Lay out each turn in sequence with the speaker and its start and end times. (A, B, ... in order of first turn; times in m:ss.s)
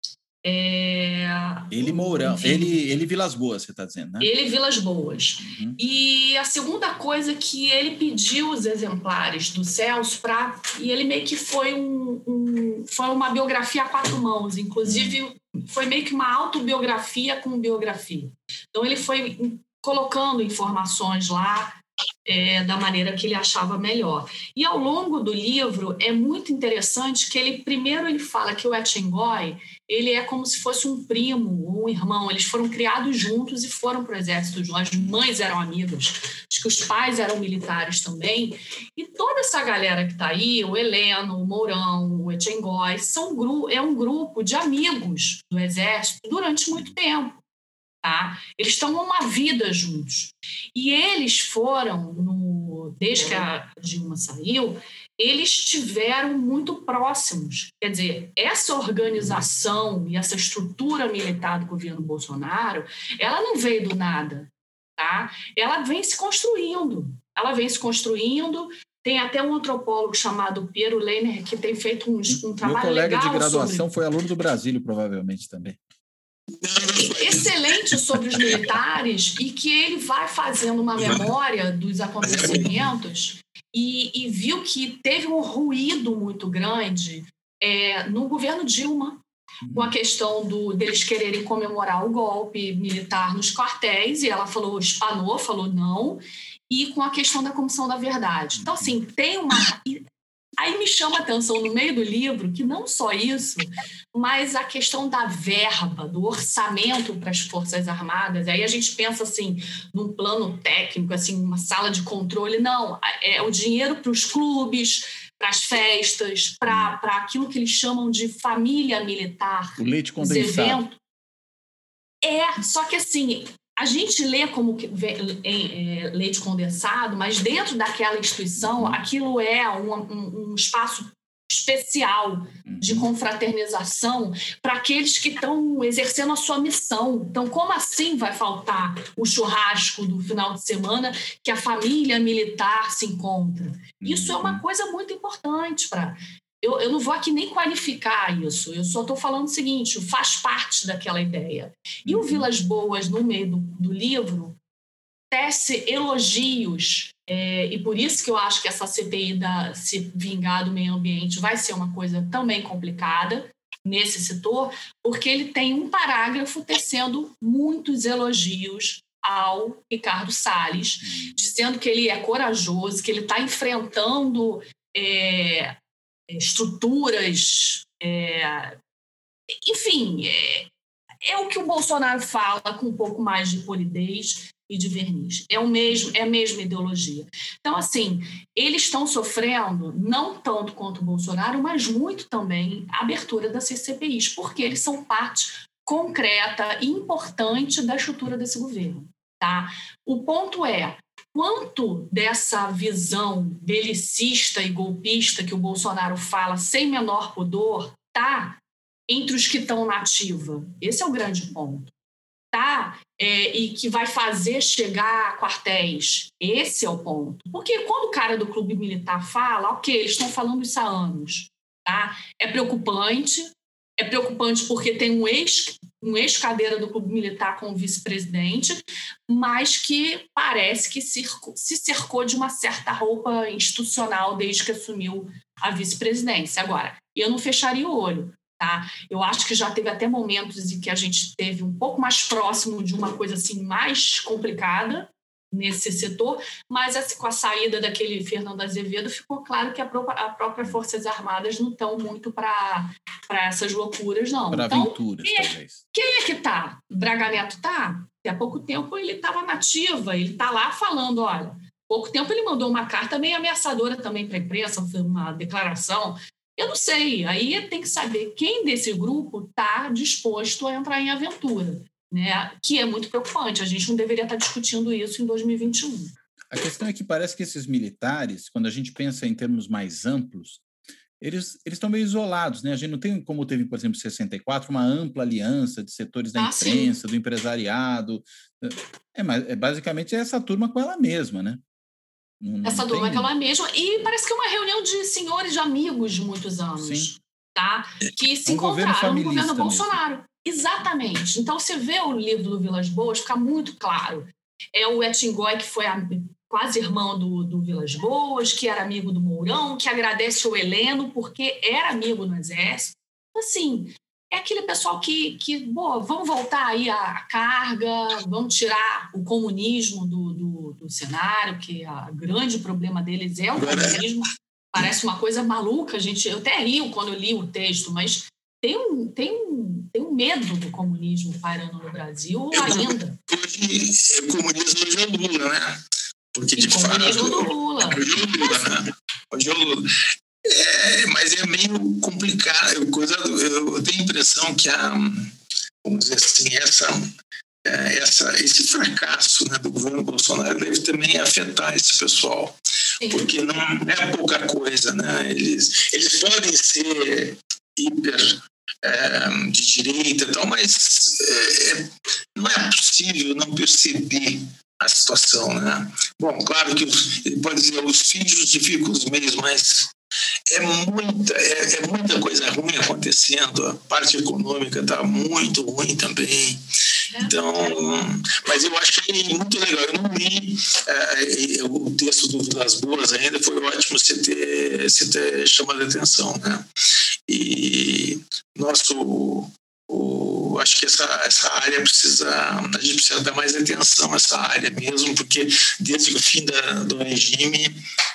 0:00.4-0:02.8 A
0:01.7-0:04.3 B
0:04.2-0:47.4 A
0:05.4-0:05.8 B
0:14.8-0:15.2 B
0:48.0-1:13.9 A
1:12.3-1:15.8 B
1:16.6-1:18.6 C
1:17.2-1:29.2 A
1:22.2-1:22.9 C
1:29.6-1:29.9 B
1:29.7-1:40.0 A
1:38.5-1:38.9 B
1:40.6-2:01.0 A
1:56.7-1:56.9 B
1:59.8-2:00.9 B
2:02.2-2:34.6 A
2:08.6-2:09.0 B
2:12.7-2:13.1 B
2:24.0-2:24.6 B
2:32.1-2:32.5 B
2:35.3-2:55.8 A
2:51.0-2:51.4 B
2:56.3-2:58.8 A
2:59.6-3:00.7 A
3:01.2-3:31.9 A
3:32.5-4:36.1 A
4:14.5-4:15.8 B
4:36.5-4:40.6 B
4:41.2-4:51.6 B
4:46.4-4:47.0 A
4:52.4-4:53.3 B
4:52.6-5:33.2 A
4:56.8-4:57.1 B
4:58.5-5:00.0 B
5:23.6-5:24.0 C
5:32.5-5:35.8 C
5:36.4-5:39.9 C
5:36.6-5:38.7 A
5:40.4-5:45.3 C
5:45.8-5:47.1 C
5:47.7-5:52.6 C
5:53.0-5:53.3 A
5:53.1-6:09.9 C
6:10.5-6:16.6 C
6:17.1-6:17.8 A
6:17.2-6:26.7 C
6:27.3-6:37.8 C